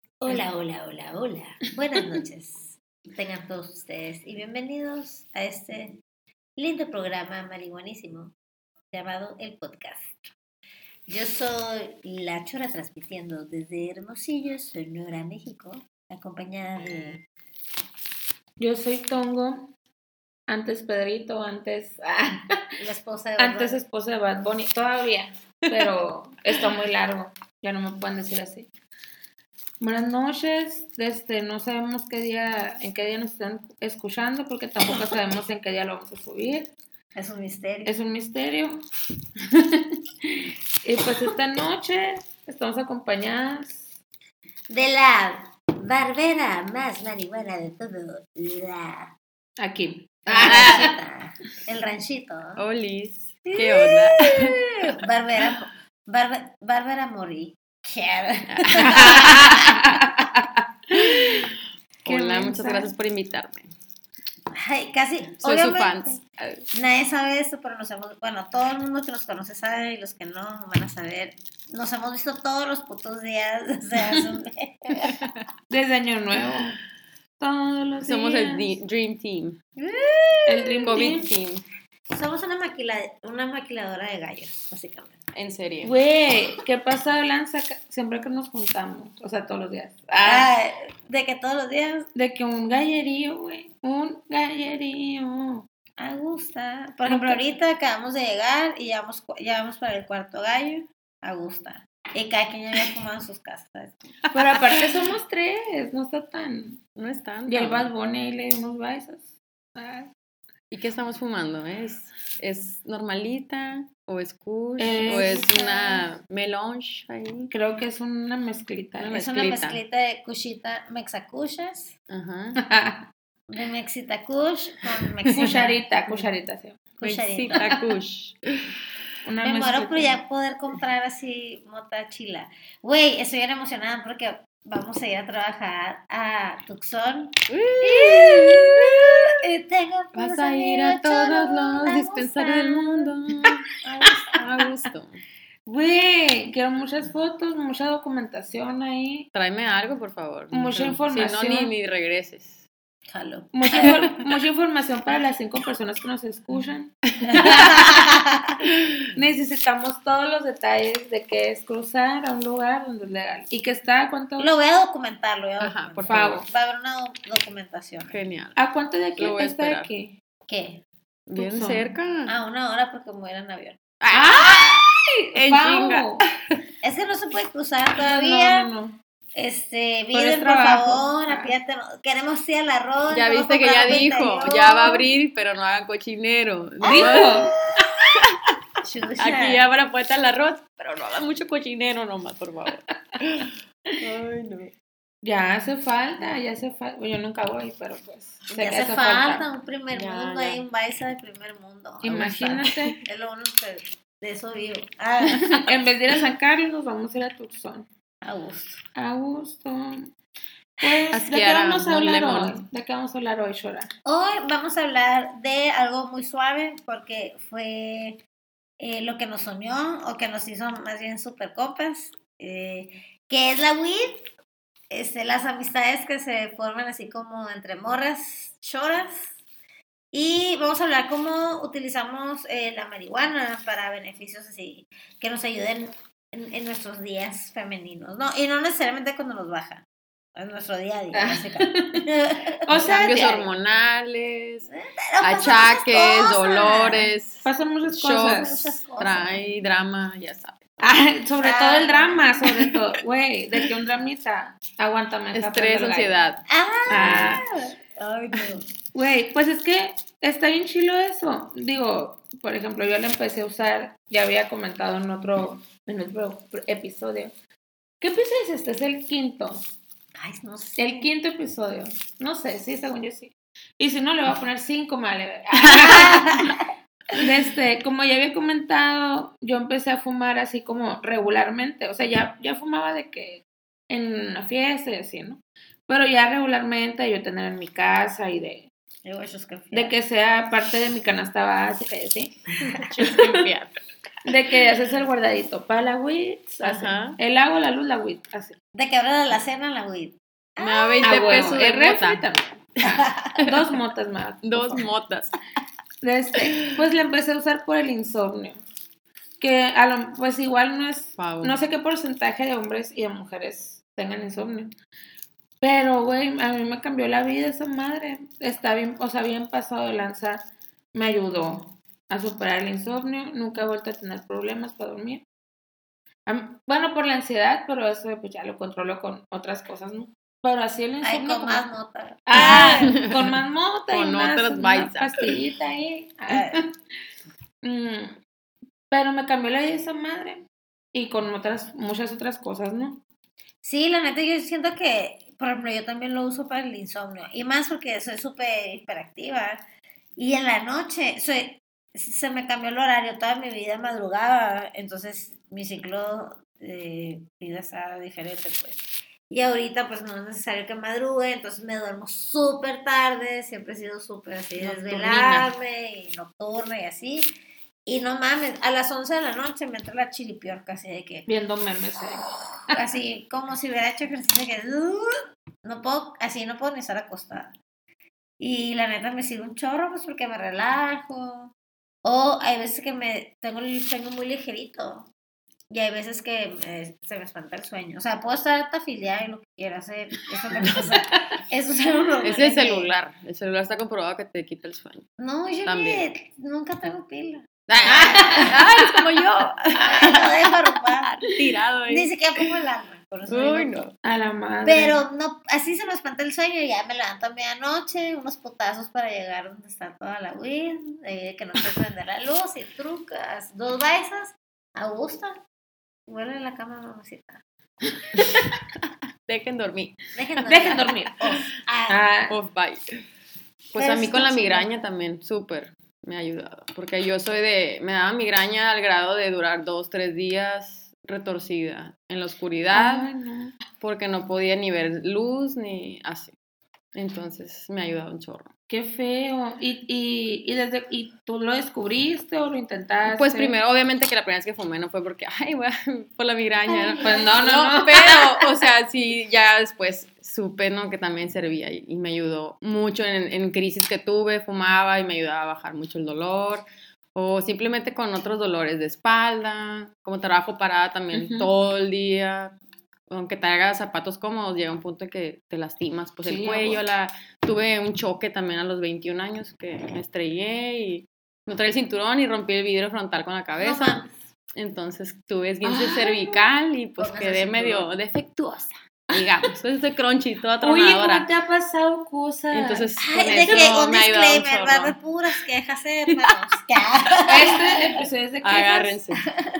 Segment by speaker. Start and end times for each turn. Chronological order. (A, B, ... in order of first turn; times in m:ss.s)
0:00.2-0:06.0 A
0:06.6-0:08.3 A
0:08.9-0:10.2 A
0:11.1-0:17.2 A
0:18.6-0:19.7 B
0:20.5-0:22.6 B
0:22.8-0:23.8 A
0:23.4-0:28.7 B
0:29.8-0:36.7 B
0:37.1-0:37.9 A
0:37.8-0:38.8 B
0:40.8-0:43.8 B
0:44.7-0:49.1 A
0:49.6-0:50.9 B
0:50.3-0:52.6 A
0:50.4-0:50.8 C
0:52.6-0:54.6 C
0:53.5-0:59.5 A
0:58.5-0:59.8 C
0:59.0-1:00.6 B
1:00.9-1:01.5 C
1:02.0-1:03.7 C
1:02.1-1:02.7 A
1:02.2-1:02.9 B
1:04.5-1:06.2 A
1:05.4-1:06.6 C
1:06.7-1:15.3 A
1:15.7-1:16.8 B
1:17.4-1:18.7 B
1:18.0-1:19.6 C
1:19.8-1:21.0 A
1:20.5-1:21.3 B
1:20.9-1:21.6 C
1:22.1-1:25.2 A
1:25.3-1:25.9 C
1:25.8-1:30.5 B
1:30.2-1:32.1 A
1:32.1-1:35.6 B
1:36.0-1:44.2 A
1:37.0-1:37.4 B
1:44.3-1:46.8 B
1:47.0-1:47.9 C
1:47.5-1:50.1 B
1:50.7-1:57.5 C
1:54.8-1:55.5 B
1:55.0-1:56.0 A
1:57.5-1:59.2 B
1:59.0-1:59.8 C
1:59.1-2:01.9 A
2:02.1-2:02.6 C
2:02.6-2:03.0 B
2:03.5-2:05.8 A
2:05.3-2:06.8 B
2:07.0-2:07.6 A
2:07.0-2:08.7 C
2:09.2-2:10.1 B
2:09.4-2:23.2 A
2:17.5-2:19.3 C
2:20.1-2:25.2 C
2:25.7-2:29.3 B
2:29.3-2:32.6 C
2:30.5-2:31.7 B
2:33.1-2:33.9 A
2:33.5-2:37.8 B
2:37.1-2:38.1 C
2:37.3-2:38.5 A
2:38.6-2:39.0 C
2:39.1-2:44.5 B
2:44.4-2:48.2 A
2:45.6-2:46.4 C
2:46.0-2:46.5 B
2:48.1-2:48.6 C
2:48.6-2:50.2 B
2:49.2-2:49.9 C
2:50.5-2:50.8 A
2:51.3-2:52.3 C
2:51.4-2:51.9 B
2:52.3-2:53.8 A
2:54.0-2:54.8 C
2:54.1-2:56.2 B
2:55.3-2:56.3 C
2:56.8-2:58.7 A
2:58.0-2:59.0 B
2:59.3-3:05.0 A
3:00.1-3:01.5 B
3:03.1-3:07.5 C
3:06.8-3:07.5 B
3:06.8-3:08.0 A
3:08.8-3:09.6 A
3:09.2-3:14.7 C
3:15.2-3:19.4 B
3:18.5-3:25.5 A
3:19.9-3:20.6 C
3:22.0-3:22.9 B
3:25.5-3:27.8 B
3:28.2-3:28.8 A
3:29.0-3:30.1 B
3:30.8-3:33.9 B
3:31.1-3:32.6 C
3:34.0-3:38.2 A
3:38.8-3:44.2 A
3:44.9-3:49.4 A
3:50.1-3:59.8 A
4:00.4-4:03.3 A
4:01.1-4:02.0 B
4:02.6-4:03.5 B
4:02.8-4:04.7 C
4:04.7-4:07.1 A
4:05.2-4:10.6 C
4:07.4-4:08.6 B
4:08.1-4:09.5 A
4:10.8-4:16.2 B
4:11.4-4:12.3 A
4:15.3-4:17.4 C
4:16.5-4:18.6 A
4:16.9-4:17.4 B
4:18.9-4:27.3 B
4:28.0-4:29.6 B
4:30.2-4:31.1 A
4:30.8-4:36.3 B
4:35.8-4:36.5 A
4:37.1-4:48.7 B
4:49.0-4:49.9 A
4:49.7-4:52.4 B
4:52.9-4:53.7 C
4:53.0-4:53.4 B
4:54.2-4:58.6 B
4:56.6-4:57.2 C
4:58.7-5:01.5 A
5:00.6-5:02.2 C
5:01.0-5:04.8 B
5:04.4-5:05.3 C
5:06.0-5:08.6 B
5:09.4-5:14.7 B
5:11.2-5:11.6 C
5:15.6-5:25.2 B
5:26.2-5:31.6 B
5:31.0-5:33.0 A
5:32.3-5:36.7 B
5:32.4-5:33.3 C
5:33.9-5:35.2 C
5:36.3-5:36.6 A
5:37.6-5:38.2 B
5:38.9-5:43.0 B
5:43.6-5:49.6 A
5:50.2-6:07.3 A
6:04.6-6:05.4 C
6:04.9-6:05.4 B
6:07.8-6:11.3 A
6:11.3-6:12.8 B
6:12.2-6:17.5 A
6:18.4-6:21.5 A
6:22.0-6:25.1 A
6:25.7-6:32.9 A
6:32.2-6:35.0 C
6:35.2-6:38.6 A
6:35.6-6:36.0 C
6:37.7-6:42.1 C
6:37.9-6:38.9 B
6:39.8-6:41.1 A
6:41.9-6:43.8 A
6:43.3-6:43.9 C
6:44.0-6:45.0 B
6:44.6-6:55.4 A
6:56.1-6:57.4 A
6:59.3-7:00.8 C
7:00.1-7:02.1 A
7:00.5-7:01.2 B
7:01.9-7:02.3 B
7:02.3-7:02.8 C
7:03.7-7:13.1 C
7:03.8-7:04.7 A
7:12.7-7:13.5 B
7:13.8-7:16.3 C
7:16.9-7:18.5 C
7:18.7-7:23.5 B
7:23.0-7:42.5 C
7:26.7-7:27.4 A
7:27.0-7:28.3 B
7:41.1-7:41.5 B
7:43.1-7:54.0 C
7:46.2-7:46.8 B
7:53.6-7:54.1 A
7:54.5-8:01.3 C
7:55.6-7:56.4 B
7:57.0-7:57.9 A
8:00.6-8:02.9 B
8:02.5-8:05.0 C
8:03.0-8:08.0 A
8:06.1-8:06.4 C
8:07.3-8:08.9 B
8:07.4-8:09.2 C